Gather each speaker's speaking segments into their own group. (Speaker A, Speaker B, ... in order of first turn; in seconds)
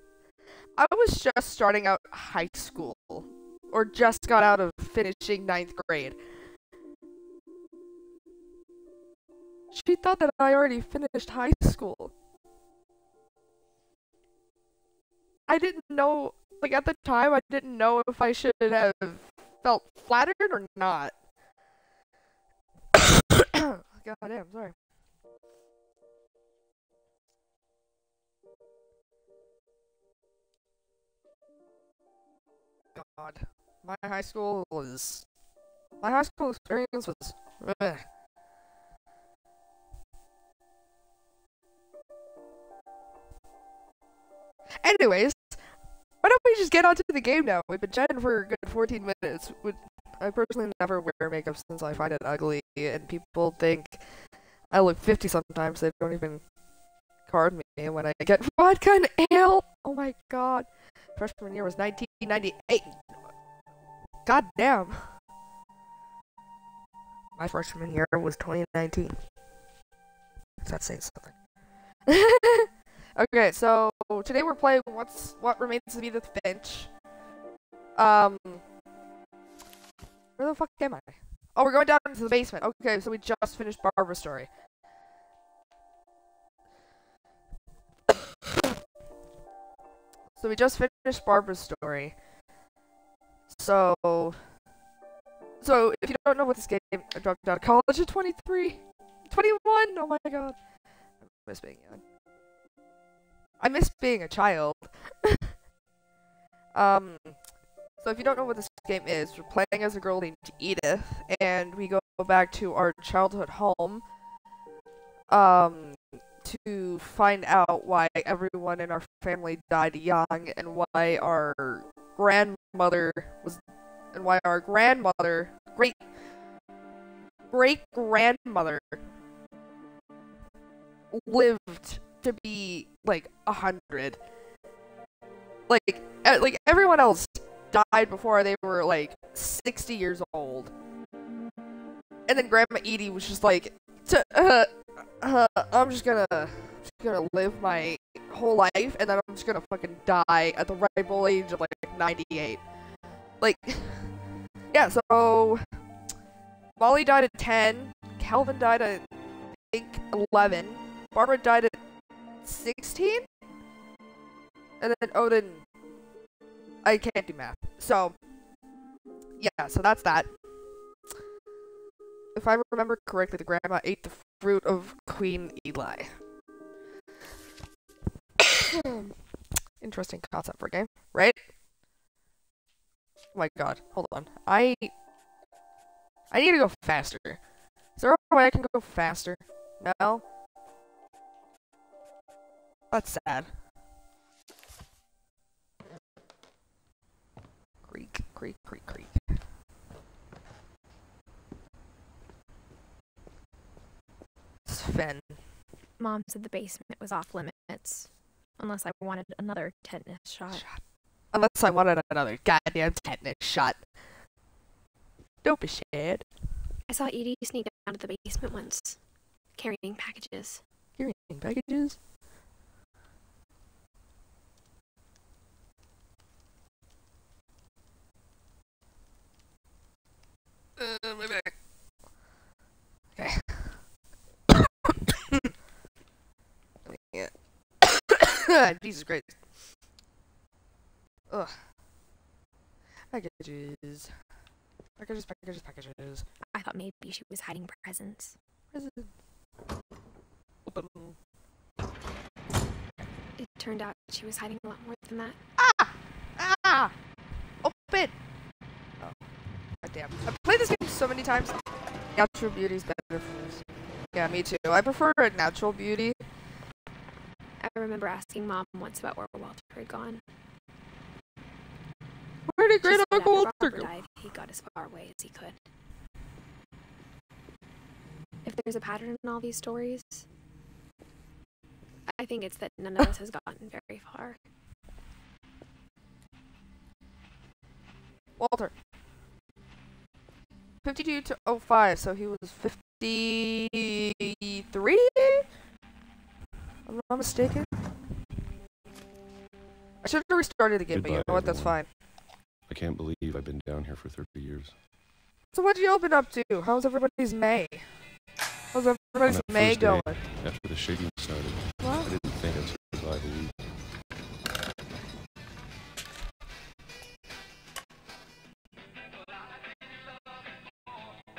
Speaker A: 0.8-6.2, 9.7-12.1, 15.5-21.1, 22.9-24.7, 33.0-35.2, 36.0-38.0, 44.8-45.6, 46.2-54.0, 54.7-56.4, 57.3-63.0, 64.3-65.1, 67.4-69.2, 70.6-71.3, 72.1-76.9, 78.0-78.6, 80.4-84.5, 90.4-92.1, 93.5-94.4, 95.6-100.6, 101.2-102.0, 103.6-105.5, 106.8-107.4, 108.0-114.0, 115.3-123.6, 124.1-126.0, 127.5-129.0, 131.1-134.2, 135.7-140.7, 142.3-144.7, 145.2-152.6, 153.4-154.1, 154.7-155.6, 156.8-159.0, 159.7-161.8, 162.4-163.2, 164.8-165.6, 166.8-168.2, 169.4-170.3, 172.3-176.1, 178.4-179.1, 179.8-181.4, 183.3-184.9, 186.3-187.4, 188.0-190.2, 192.9-193.5, 197.9-199.1, 204.7-205.3, 210.5-210.8, 211.3-213.8, 215.4-216.2, 221.0-222.0, 230.8-231.5, 233.2-233.7, 234.5-235.5, 236.9-239.4, 241.3-241.6, 243.1-244.1, 245.0-246.3, 248.7-249.1, 250.7-251.2, 255.6-256.9, 257.6-258.1, 259.8-261.6, 262.1-263.6, 264.1-266.2, 272.5-273.9, 288.4-288.7, 290.8-295.4, 296.9-297.7, 300.0-301.9, 305.5-307.8, 308.7-310.2, 311.8-312.1
Speaker B: 206.0-210.7, 216.9-219.0, 219.6-220.6, 246.5-248.3, 253.4-255.4, 267.6-270.2, 272.8-275.6, 278.4-280.2, 282.1-284.4
Speaker C: 300.9-301.8, 302.7-304.8, 309.2-313.6